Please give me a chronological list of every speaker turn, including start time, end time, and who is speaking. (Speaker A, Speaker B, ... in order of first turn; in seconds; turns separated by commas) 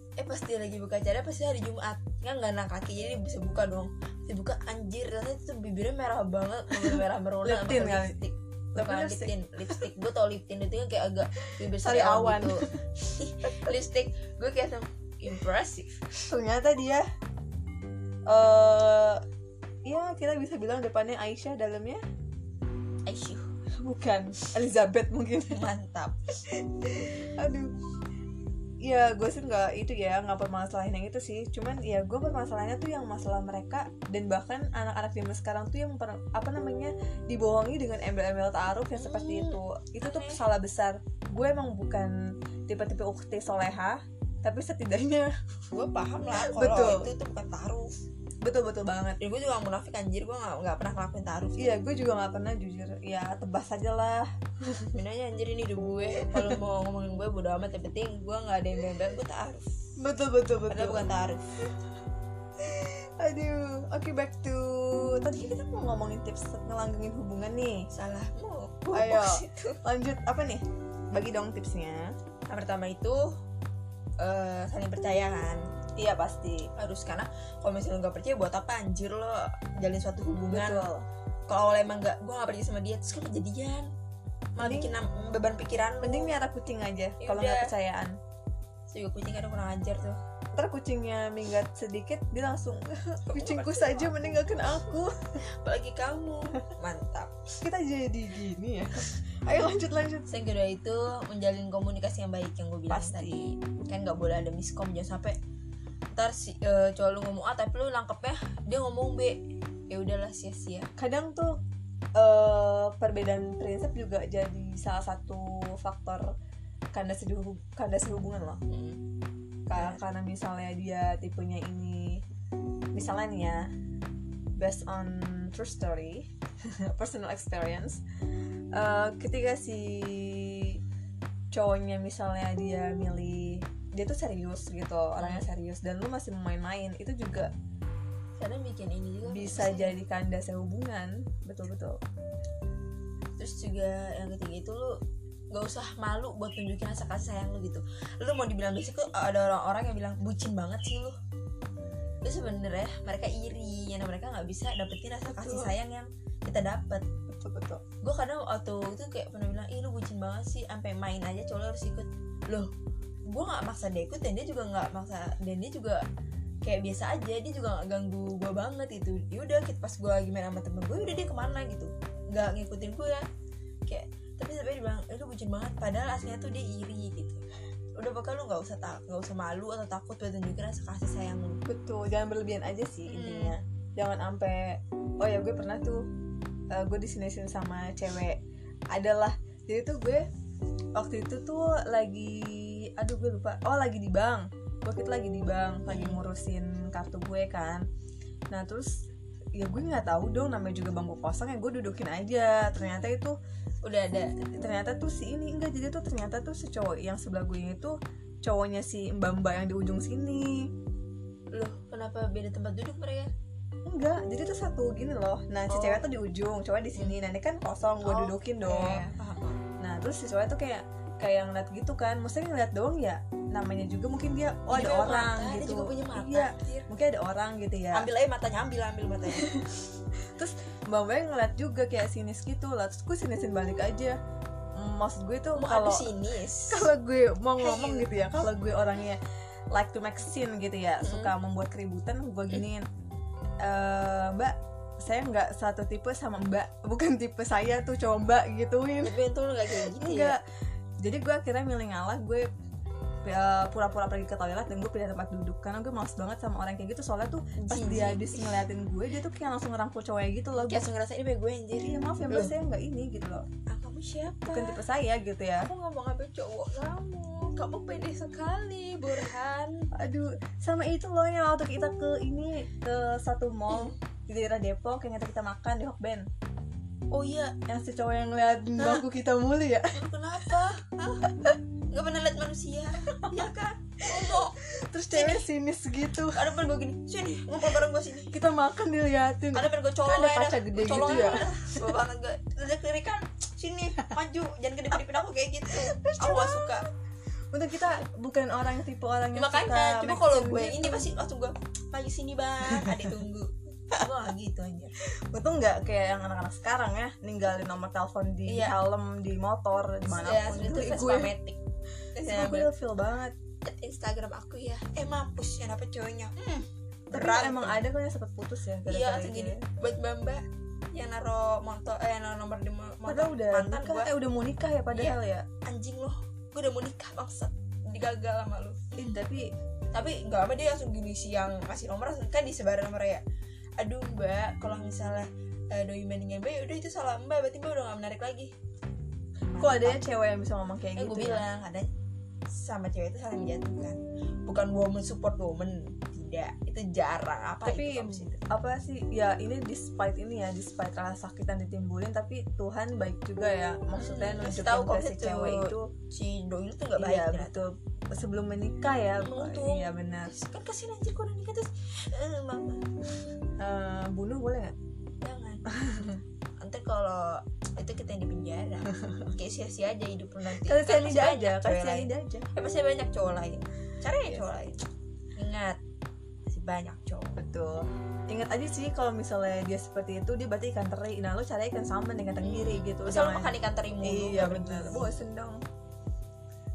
Speaker A: 0.2-16.3, Speaker B: 6.8-8.2, Speaker B: 8.8-9.8, Speaker B: 11.5-12.8, Speaker B: 16.3-17.1, Speaker B: 18.3-19.2, Speaker B: 19.9-22.0, Speaker A: 23.1-23.5, Speaker B: 23.8-25.7, Speaker A: 25.5-26.2, Speaker B: 26.5-27.7, Speaker B: 28.8-42.1, Speaker A: 39.0-40.4, Speaker B: 42.7-45.3, Speaker A: 45.7-47.9, Speaker B: 46.4-47.1, Speaker B: 48.4-49.2, Speaker A: 49.2-51.8, Speaker B: 51.6-54.9, Speaker A: 54.9-59.7, Speaker B: 56.3-56.6, Speaker B: 60.0-61.1, Speaker A: 60.7-61.5, Speaker B: 62.6-67.9, Speaker A: 67.9-69.8, Speaker B: 68.9-72.2, Speaker A: 72.5-73.4, Speaker A: 74.2-75.7, Speaker B: 76.0-76.7, Speaker A: 76.8-80.9, Speaker B: 80.5-81.1, Speaker A: 81.5-83.9, Speaker A: 84.6-86.3, Speaker B: 84.6-85.0, Speaker B: 86.0-88.2, Speaker A: 87.2-87.7, Speaker A: 88.9-90.2, Speaker B: 90.5-95.4, Speaker A: 93.3-94.2, Speaker A: 95.4-97.4, Speaker B: 97.6-100.3, Speaker A: 100.3-105.4, Speaker B: 102.9-103.5, Speaker A: 106.1-109.4, Speaker A: 109.9-110.9, Speaker B: 111.0-111.6, Speaker B: 112.2-116.3, Speaker B: 116.9-118.6, Speaker A: 118.7-119.0, Speaker B: 119.7-122.2, Speaker A: 119.8-120.0, Speaker B: 122.9-123.7, Speaker B: 124.6-128.0, Speaker B: 128.7-130.8, Speaker B: 131.5-137.5, Speaker A: 135.2-135.5, Speaker A: 138.4-140.0, Speaker B: 139.2-142.0, Speaker A: 143.4-145.0, Speaker A: 145.5-151.2, Speaker A: 152.2-157.1, Speaker B: 155.3-155.7, Speaker B: 157.3-157.8, Speaker A: 158.0-162.7, Speaker A: 163.3-166.0, Speaker A: 166.6-173.3, Speaker A: 173.9-177.4, Speaker A: 178.0-181.6, Speaker B: 181.7-186.1, Speaker A: 183.1-183.6, Speaker B: 186.7-188.4, Speaker B: 188.9-190.3, Speaker B: 191.0-197.8, Speaker A: 195.9-196.2, Speaker B: 198.5-199.1, Speaker B: 199.6-203.4, Speaker A: 203.8-204.4, Speaker B: 204.5-210.7, Speaker A: 211.5-213.3, Speaker B: 213.9-219.0, Speaker A: 215.7-216.1, Speaker A: 217.0-217.2, Speaker A: 218.0-219.6, Speaker B: 219.8-228.1, Speaker A: 224.7-226.9, Speaker A: 227.9-229.5, Speaker B: 229.3-229.7, Speaker B: 230.3-234.2, Speaker B: 234.8-236.1, Speaker A: 235.6-236.9, Speaker B: 236.7-239.2, Speaker A: 237.6-238.1, Speaker B: 239.7-242.9, Speaker A: 241.0-241.3, Speaker B: 243.6-249.2, Speaker A: 249.0-250.4, Speaker B: 249.8-250.4, Speaker B: 251.0-252.5, Speaker B: 253.2-260.9, Speaker A: 257.6-258.6, Speaker A: 260.6-262.5, Speaker B: 261.8-263.5, Speaker A: 263.7-264.8, Speaker B: 264.5-265.7, Speaker A: 265.6-269.9, Speaker B: 269.9-276.3, Speaker A: 277.1-277.6, Speaker B: 277.7-280.7, Speaker A: 279.9-281.3, Speaker B: 281.3-281.6, Speaker A: 281.9-284.6, Speaker B: 283.1-283.5, Speaker B: 284.1-286.6, Speaker A: 285.1-285.5, Speaker A: 286.3-288.4, Speaker B: 288.3-291.9, Speaker A: 289.5-296.9, Speaker B: 295.7-296.9, Speaker B: 297.5-301.1, Speaker A: 299.3-304.9, Speaker B: 302.7-303.1, Speaker B: 305.3-311.4, Speaker A: 308.5-308.8, Speaker A: 310.1-311.6, Speaker A: 312.1-312.7, Speaker B: 312.2-313.4, Speaker A: 313.6-317.8, Speaker B: 317.1-319.7, Speaker A: 318.9-324.1, Speaker B: 323.1-325.5, Speaker A: 324.9-329.2, Speaker B: 328.9-329.5, Speaker A: 329.9-333.2, Speaker A: 333.8-338.5, Speaker A: 339.4-340.0, Speaker B: 339.6-341.5, Speaker A: 341.0-341.9, Speaker A: 342.5-348.4, Speaker B: 347.6-355.9, Speaker A: 353.9-357.6, Speaker B: 357.0-360.3, Speaker A: 359.2-362.9, Speaker B: 363.6-364.8, Speaker A: 365.2-365.7, Speaker B: 365.7-366.2, Speaker A: 366.6-374.9, Speaker B: 370.6-372.5, Speaker B: 374.2-374.5, Speaker A: 375.4-375.8, Speaker A: 376.5-377.4, Speaker B: 377.4-385.6, Speaker A: 382.4-385.2